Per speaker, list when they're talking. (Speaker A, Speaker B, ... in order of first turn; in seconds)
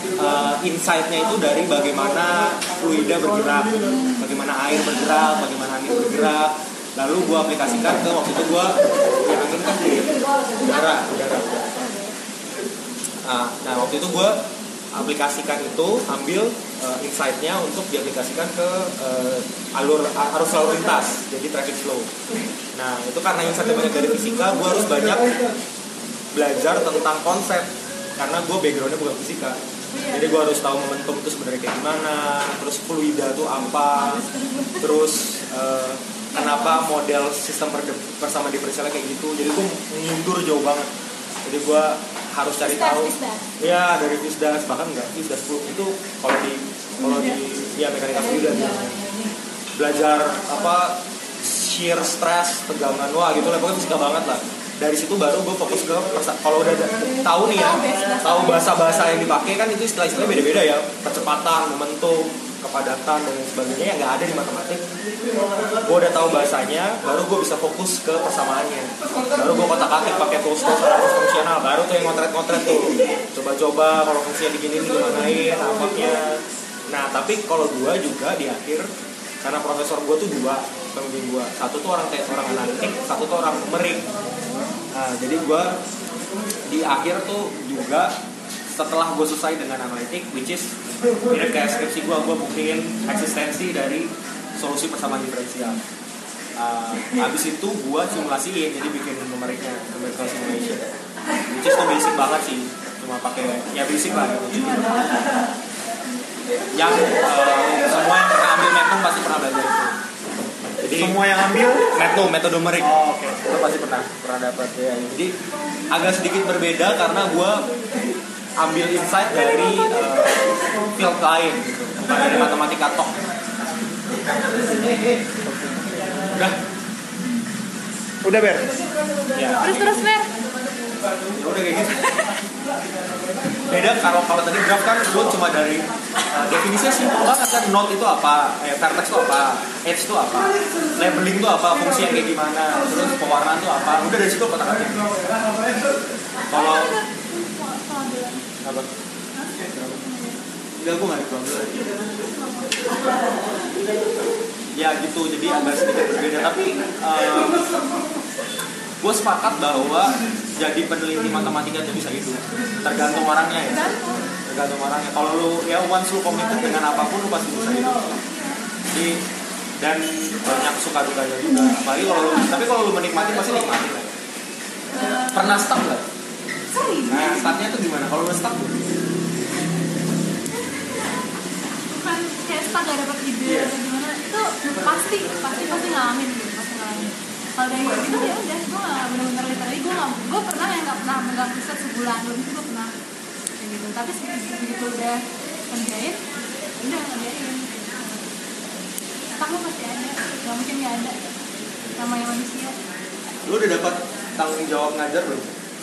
Speaker A: 0.1-11.7, 13.2-14.4, 14.9-22.1, 22.7-25.5, 26.3-29.6, 30.1-34.2, 34.8-40.9, 41.4-49.0, 49.8-64.8, 65.7-78.9, 79.4-84.1, 84.9-85.8, 86.7-88.1, 88.7-90.7, 91.3-95.8, 96.5-100.9, 101.5-104.9, 106.7-110.0, 110.8-115.3, 115.9-117.7, 118.6-123.2, 126.3-126.5, 129.3-129.7, 131.3-132.3, 133.7-145.1, 146.5-146.9, 149.7-149.9, 150.8-152.0, 154.7-157.6, 159.0-163.9, 164.4-168.2, 168.9-169.2, 169.8-174.2, 175.0-176.1, 177.1-178.9, 183.4-183.7, 203.4-205.5
Speaker B: 29.9-30.4, 33.9-34.9, 36.3-36.8, 42.6-43.4, 57.4-58.7, 129.6-130.4, 146.5-148.4, 149.3-150.4, 152.2-154.2, 163.7-164.3, 168.2-168.6, 171.8-172.7, 174.9-175.6, 176.7-177.5, 181.9-192.9, 193.6-196.2, 196.8-198.1, 199.4-201.2, 201.9-202.8
Speaker C: 111.0-111.8, 125.4-125.8, 128.2-128.8